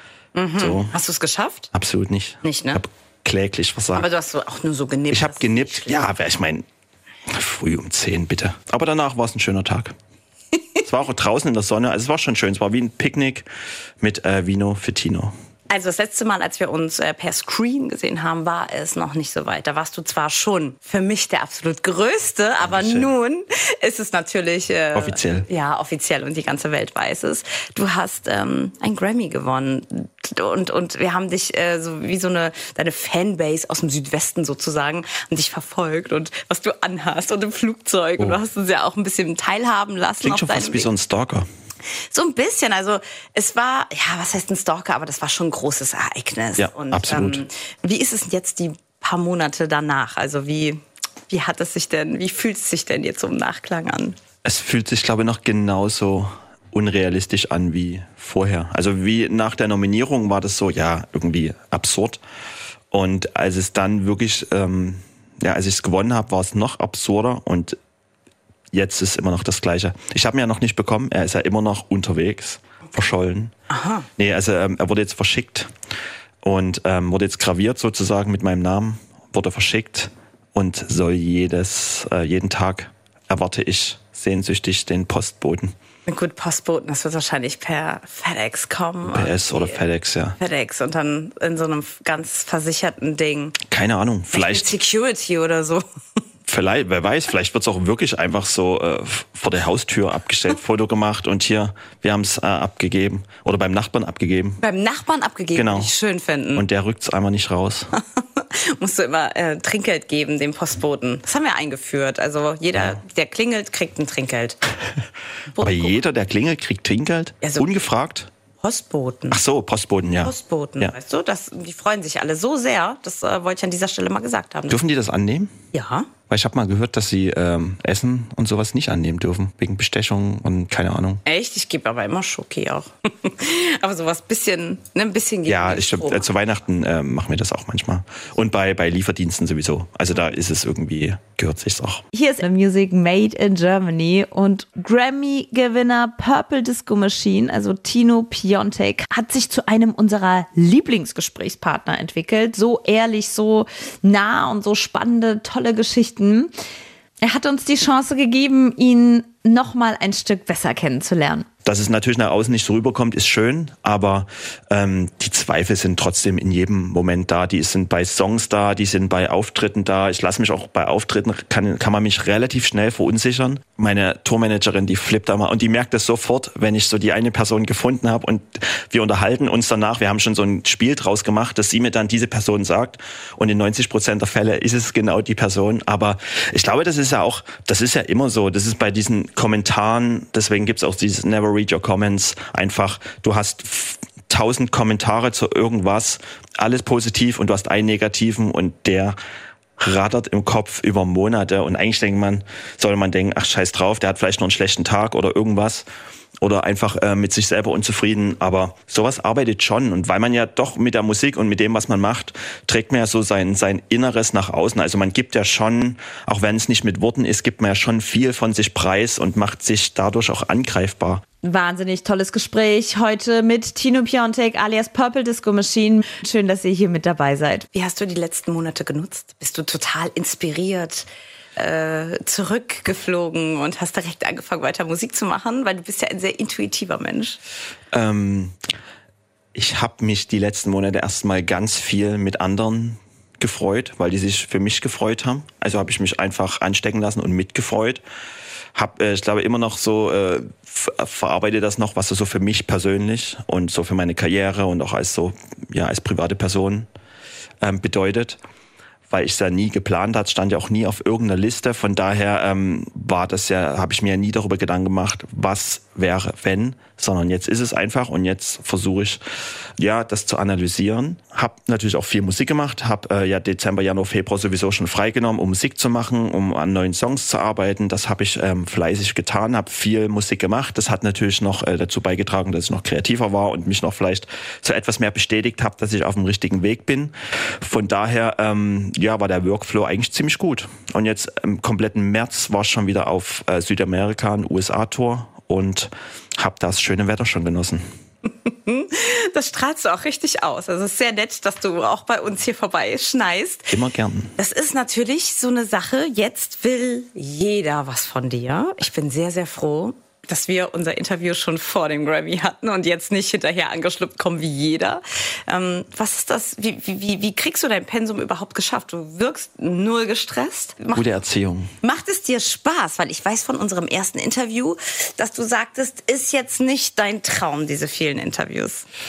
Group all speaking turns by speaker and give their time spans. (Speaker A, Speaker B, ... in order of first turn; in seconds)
Speaker A: 0.3-1.7, 2.4-2.8, 3.9-6.1, 15.7-40.9, 42.1-54.1, 73.7-74.1, 86.1-89.8, 90.4-93.5, 94.3-95.8, 104.6-106.7, 108.0-114.6, 115.5-115.9, 117.4-117.8, 118.6-119.4, 120.2-124.8, 125.7-126.1, 131.2-136.3, 227.7-237.4, 298.4-303.7, 304.4-321.1, 321.8-328.8
Speaker B: 0.5-0.9, 1.7-4.1, 5.1-6.6, 7.3-9.9, 10.8-13.5, 14.0-15.3, 22.6-23.1, 24.9-25.5, 40.2-41.5, 46.6-47.4, 54.4-62.2, 62.9-67.8, 68.7-73.5, 74.2-75.7, 76.4-85.7, 89.0-90.4, 93.6-94.8, 96.5-104.6, 105.5-105.9, 106.5-107.9, 115.6-118.3, 119.3-120.9, 124.7-125.5, 126.3-131.2, 135.5-142.0, 161.6-199.2, 199.8-205.8, 206.4-221.2, 237.9-238.6, 239.5-248.0, 248.7-256.9, 257.6-258.4, 259.1-269.2, 269.8-297.8, 303.7-304.3, 320.9-321.7
Speaker C: 142.1-156.5, 157.2-161.4, 221.4-227.7